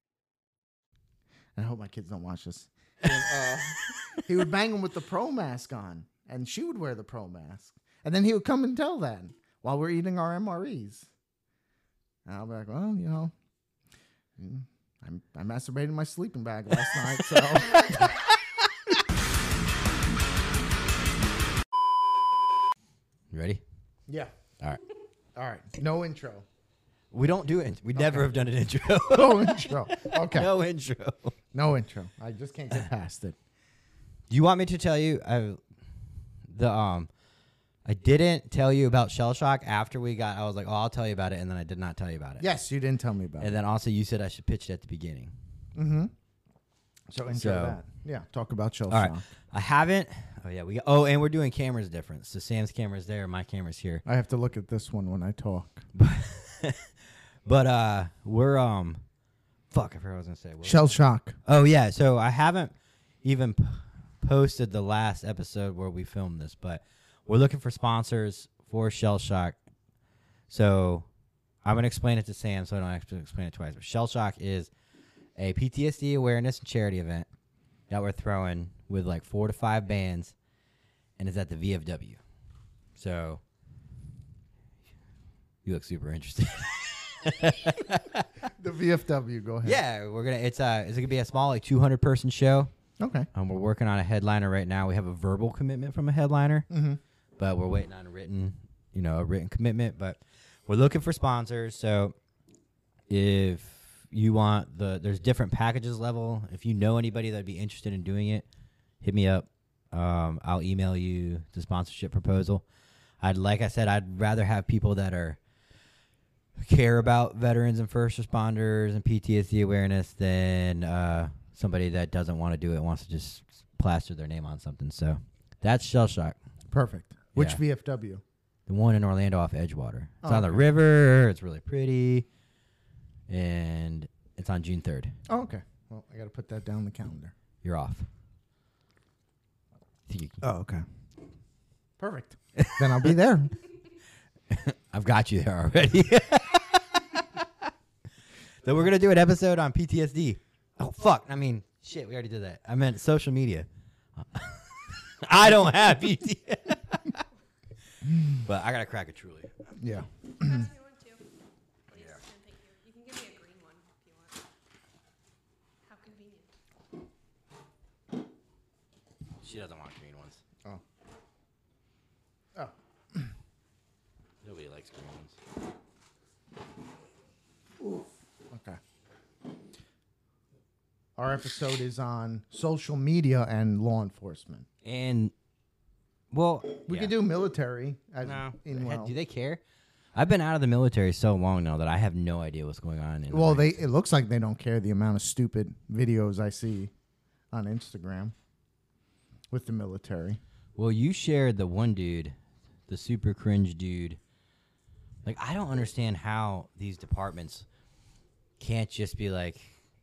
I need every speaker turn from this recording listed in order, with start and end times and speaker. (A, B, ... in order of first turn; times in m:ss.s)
0:01.6-0:11.1 A
0:12.3-0:13.3 A
0:14.4-0:18.1 A
0:16.9-0:19.0 B
0:23.3-0:23.6 B
0:24.1-0:24.3 A
0:25.4-0:26.5 A
0:27.1-0:31.4 B
0:28.0-0:28.3 A
0:29.1-0:30.5 A
0:31.5-0:33.4 A
0:34.3-0:35.6 B
0:36.5-0:37.1 B
0:37.9-0:42.5 B
0:42.4-0:43.5 A
0:43.4-0:45.3 B
0:45.8-0:46.1 A
0:47.1-0:49.2 A
0:47.3-0:47.8 B
0:48.9-0:54.0 B
0:54.0-0:55.9 A
0:56.0-0:56.9 B
0:57.4-0:59.0 B
0:59.7-1:09.6 B
1:00.6-1:01.4 A
1:10.5-1:11.1 B
1:11.6-1:14.7 B
1:15.4-1:17.3 B
1:17.9-1:20.4 B
1:21.2-1:22.2 B
1:23.0-1:23.4 B
1:25.6-1:28.5 B
1:28.5-1:29.8 A
1:29.6-1:32.7 B
1:33.0-1:33.3 A
1:33.3-1:36.7 B
1:36.7-1:37.0 A
1:37.4-1:42.1 B
1:43.1-1:48.5 B
1:49.0-1:52.6 B
1:53.2-1:55.4 B
1:56.6-2:06.4 B
2:06.7-2:08.2 A
2:07.3-2:07.6 B
2:08.7-2:12.3 B
2:10.2-2:10.6 A
2:13.3-2:15.2 B
2:15.3-2:17.3 A
2:17.6-2:18.1 B
2:20.1-2:20.4 B
2:20.4-2:20.8 A
2:22.0-2:23.6 A
2:22.6-2:23.1 B
2:24.5-2:27.7 B
2:28.6-2:33.7 B
2:34.2-2:37.2 B
2:38.0-2:38.4 A
2:38.3-2:39.5 B
2:39.8-2:40.7 A
2:40.4-2:41.2 C
2:41.9-2:44.4 C
2:41.9-2:42.2 B
2:45.9-2:46.5 C
2:49.4-2:50.4 B
2:52.6-2:53.3 A
2:54.4-2:55.4 B
2:58.5-2:58.8 A
3:01.2-3:04.7 A
3:04.8-3:05.3 B
3:06.3-3:07.1 B
3:06.9-3:09.1 A
3:08.2-3:09.6 B
3:10.2-3:13.8 B
3:13.3-3:16.9 A
3:17.5-3:18.4 A
3:19.5-3:20.4 A
3:20.8-3:22.4 B
3:22.9-3:24.2 B
3:25.2-3:27.7 B
3:28.6-3:29.7 B